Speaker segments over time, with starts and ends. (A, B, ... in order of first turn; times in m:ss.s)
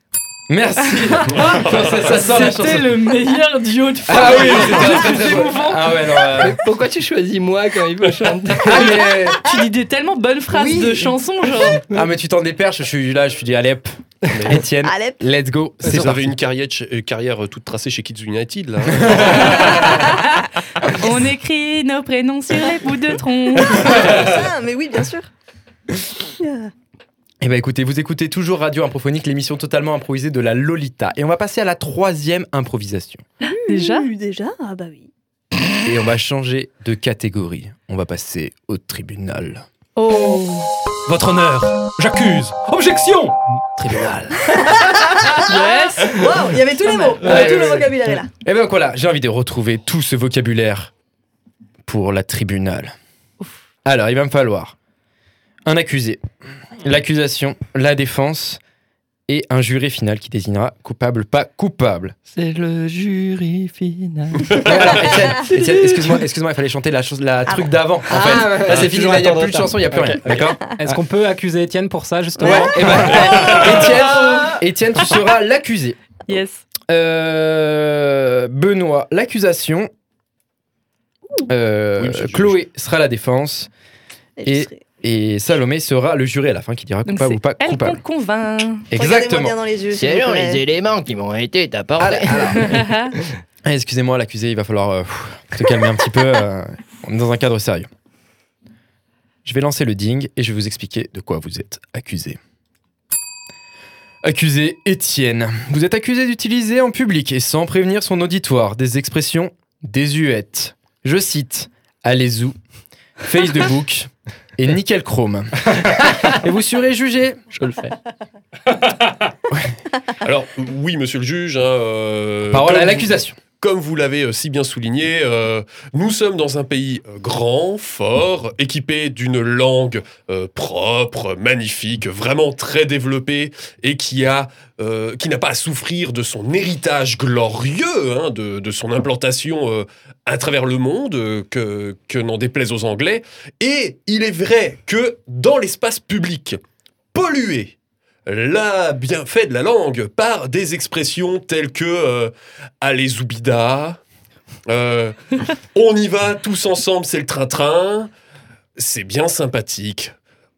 0:00.5-0:03.0 A
0:01.2-0:05.9 B
0:04.1-0:06.6 A
0:06.3-0:08.9 C
0:08.6-0:09.6 A
0:08.7-0:11.8 B
0:10.5-0:11.1 A
0:11.9-0:16.4 A
0:14.3-0:14.6 D
0:14.8-0:15.2 E
0:15.8-0:20.0 D
0:19.0-0:19.7 A
0:19.3-0:24.0 B
0:23.6-0:25.3 E
0:26.2-0:26.7 E
0:27.4-0:33.2 A
0:33.4-0:35.1 E
0:33.7-0:34.1 B
0:35.8-0:39.6 A
0:40.0-0:40.7 B
0:41.0-0:45.2 F
0:45.3-0:48.3 E
0:45.4-0:46.2 B
0:46.8-0:47.2 B
0:47.2-0:47.6 C
0:47.2-0:47.8 A
0:48.4-0:50.9 A
0:51.8-0:52.9 A
0:53.8-0:54.7 A
0:55.6-0:56.2 A
0:56.8-0:58.6 A
0:59.3-1:02.1 A
1:02.3-1:06.2 C
1:04.6-1:10.8 A
1:08.1-1:10.4 C
1:10.7-1:13.2 F
1:12.4-1:16.0 A
1:12.4-1:12.7 E
1:13.1-1:14.5 C
1:16.3-1:16.6 B
1:16.9-1:19.9 A
1:21.5-1:23.7 A
1:22.0-1:22.6 D
1:24.4-1:24.8 E
1:24.4-1:28.0 A
1:27.0-1:28.9 B
1:28.9-1:29.6 A
1:28.9-1:30.6 E
1:29.9-1:32.9 C
1:32.0-1:32.8 A
1:32.6-1:33.1 B
1:33.6-1:37.9 A
1:39.4-1:42.4 A
1:44.2-1:52.6 A
1:53.2-1:57.4 A
1:59.5-1:59.8 A
2:00.2-2:26.6 D
2:02.5-2:03.4 A
2:27.1-2:27.7 D
2:28.2-2:34.0 D
2:34.7-2:38.1 D
2:38.8-2:40.1 D